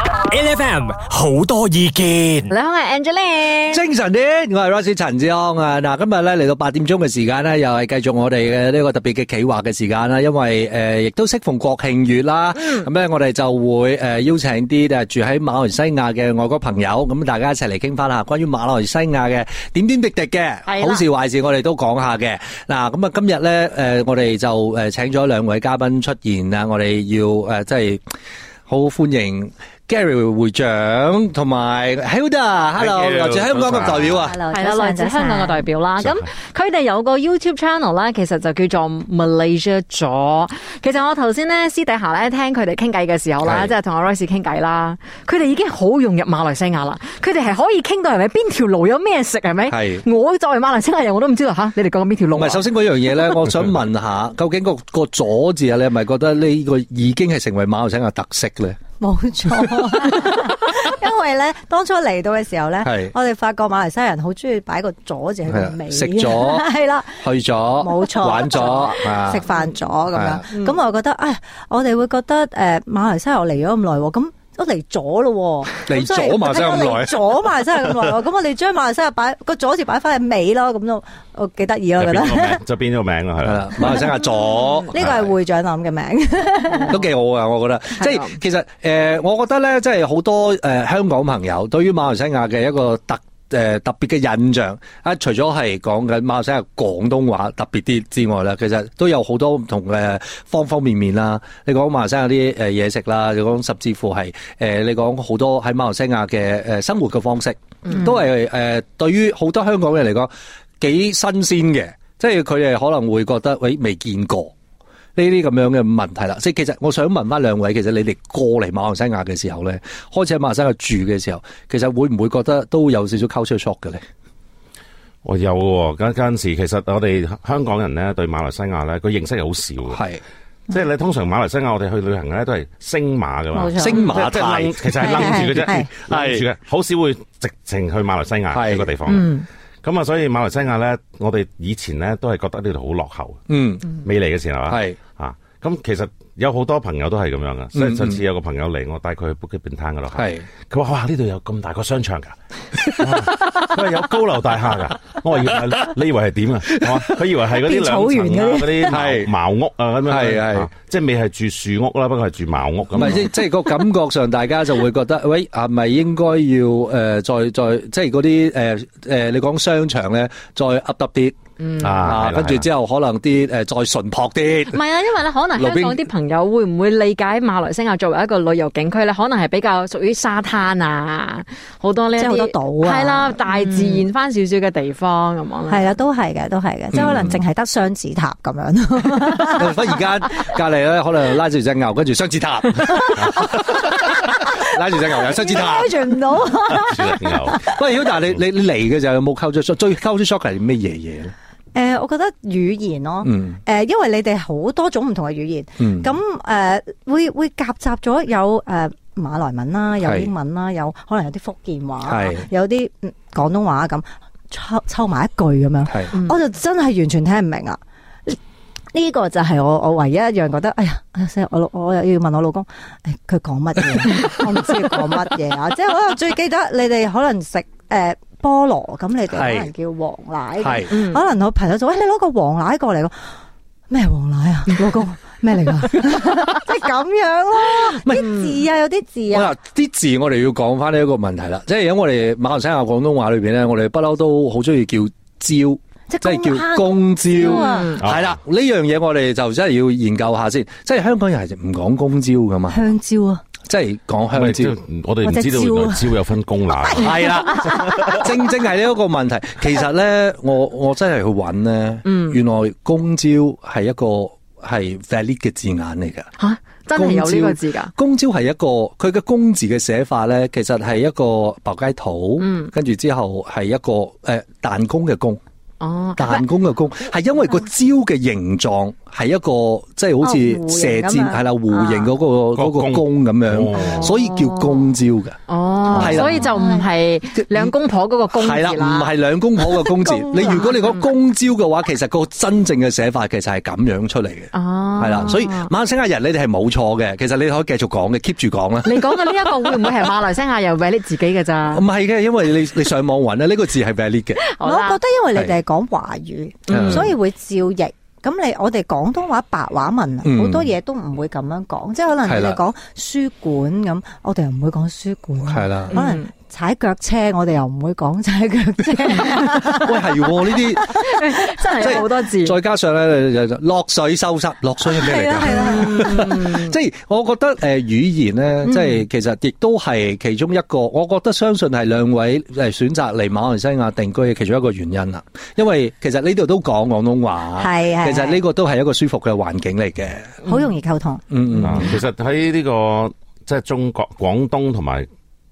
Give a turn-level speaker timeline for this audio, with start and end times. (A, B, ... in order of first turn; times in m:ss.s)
0:00.3-0:02.5 A
0:02.5-0:03.8 B
0:03.7-0:28.0 C
0:20.7-0:21.0 B
0:28.7-0:34.4 C
0:32.8-0:34.3 D
0:34.2-0:35.7 E
0:34.5-0:52.7 B
0:36.0-0:36.2 D
0:43.4-0:43.7 C
0:49.7-0:50.0 C
0:52.3-0:58.8 C
0:59.0-1:22.6 E
0:59.5-0:59.9 C
1:02.8-1:03.1 C
1:05.5-1:09.6 C
1:10.1-1:10.5 C
1:15.8-1:17.4 C
1:22.0-1:24.1 D
1:23.4-1:25.1 C
1:24.9-1:27.0 E
1:25.0-1:25.3 D
1:26.9-1:54.5 C
1:47.8-1:48.2 B
1:55.2-2:04.0 C
2:05.2-2:10.0 D
2:09.9-2:10.2 C
2:10.7-2:23.4 D
2:13.5-2:14.1 E
2:13.8-2:16.4 C
2:15.0-2:15.9 E
2:18.5-2:18.9 C
2:19.1-2:19.4 E
2:23.5-2:23.9 C
2:24.0-2:43.4 D
2:24.7-2:25.0 C
2:27.8-2:28.2 C
2:30.1-2:30.5 C
2:36.7-2:37.2 C
2:37.5-2:39.0 E
2:38.9-2:39.3 C
2:40.1-2:40.7 C
2:42.9-2:51.4 C
2:51.6-2:52.1 B
2:51.8-2:52.7 D
2:52.0-2:54.8 C
2:54.7-3:05.9 B
2:55.6-2:56.1 C
3:02.2-3:04.0 E
3:05.7-3:10.0 E
3:06.9-3:07.4 C
3:09.6-3:16.1 C
3:12.9-3:17.8 E
3:16.6-3:17.7 D
3:17.6-3:21.3 C
3:21.7-3:38.4 E
3:23.2-3:23.6 C
3:25.8-3:26.2 C
3:30.0-3:30.3 C
3:32.0-3:32.5 C
3:38.9-3:53.4 E
3:49.3-3:49.7 C
3:50.6-3:51.0 C
3:50.9-3:51.2 B
3:53.9-3:59.6 E
3:57.8-3:58.4 C
3:59.3-4:12.8 C
4:06.1-4:07.9 E
4:07.4-4:08.0 B
4:08.0-4:08.4 D
4:12.7-4:13.4 E
4:13.6-4:14.8 C
4:14.3-4:18.2 D
4:15.2-4:16.1 E
4:16.8-4:18.2 E
4:17.0-4:26.3 C
4:22.0-4:22.4 B
4:26.4-4:27.9 B
4:27.0-4:35.4 C
4:32.4-4:32.7 B
4:35.8-4:36.4 B
4:36.2-4:45.4 C
4:40.2-4:42.1 E
4:42.6-4:44.1 D
4:44.0-4:44.8 B
4:45.5-4:49.1 B
4:45.9-4:46.9 E
4:45.9-4:46.5 C
4:47.4-4:47.7 C
4:48.3-4:59.9 C
4:50.0-4:51.0 E
4:54.5-4:55.7 B
4:58.8-5:01.8 B
5:01.7-5:04.4 C
5:04.4-5:05.0 B
5:04.6-5:22.0 E
5:06.7-5:07.2 C
5:06.7-5:07.0 B
5:10.2-5:10.7 C
5:12.2-5:12.6 C
5:15.4-5:16.0 C
5:15.9-5:16.3 B
5:19.6-5:21.1 C
5:20.8-5:22.6 B
5:21.8-5:40.4 C
5:24.9-5:26.4 E
5:25.4-5:26.8 B
5:28.7-5:29.0 B
5:37.6-5:38.4 E
5:40.4-5:41.2 E
5:41.3-5:42.0 C
5:41.6-5:45.1 D